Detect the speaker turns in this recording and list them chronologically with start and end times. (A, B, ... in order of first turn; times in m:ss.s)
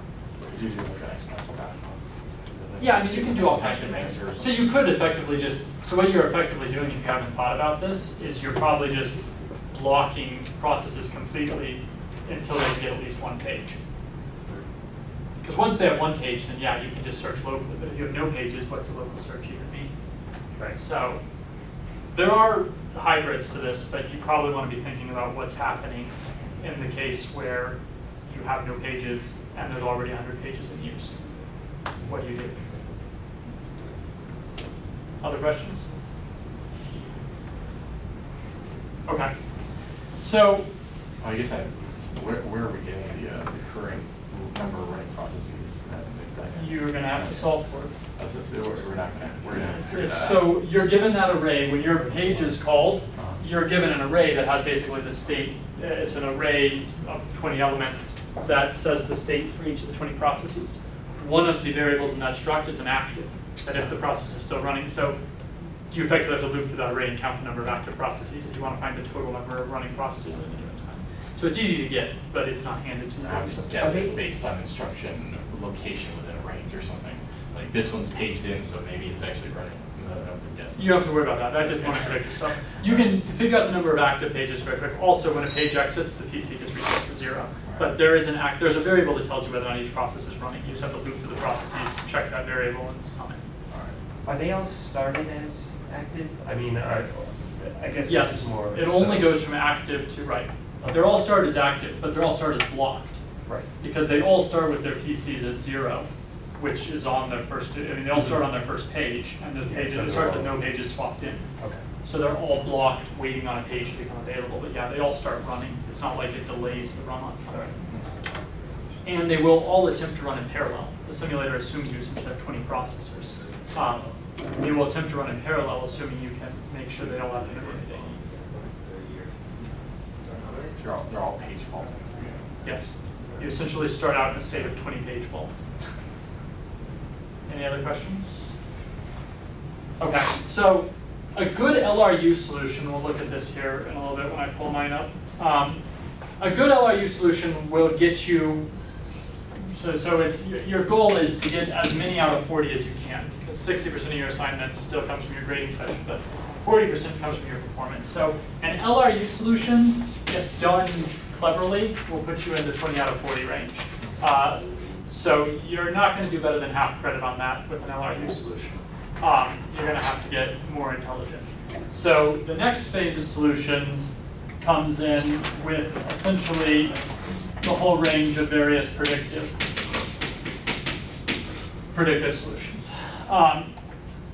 0:00.4-0:04.7 A
0:02.8-0:13.8 B
0:15.4-0:19.9 B
0:20.7-0:21.2 B
0:22.1-0:31.2 B
0:32.0-0:32.6 B
0:35.2-0:35.8 B
0:39.0-0:39.3 B
0:40.2-0:40.7 B
0:41.2-0:47.6 A
0:46.5-0:47.9 B
0:48.2-0:50.5 A
0:49.7-1:05.2 B
0:53.1-0:53.4 A
1:05.9-1:14.0 B
1:13.2-1:23.1 A
1:13.8-1:14.2 C
1:20.8-1:33.4 B
1:27.6-1:28.0 A
1:33.7-1:34.0 A
1:34.2-1:39.3 C
1:38.0-1:43.2 B
1:43.8-1:51.4 B
1:49.6-1:50.6 C
1:52.0-1:57.8 B
1:59.0-2:08.2 B
2:08.1-2:09.3 C
2:10.2-2:10.6 C
2:10.6-2:12.5 A
2:12.6-2:15.7 B
2:17.5-2:18.5 B
2:20.0-2:25.8 B
2:26.4-2:28.7 B
2:29.7-2:57.0 B
2:57.6-2:59.5 B
3:01.9-3:03.7 B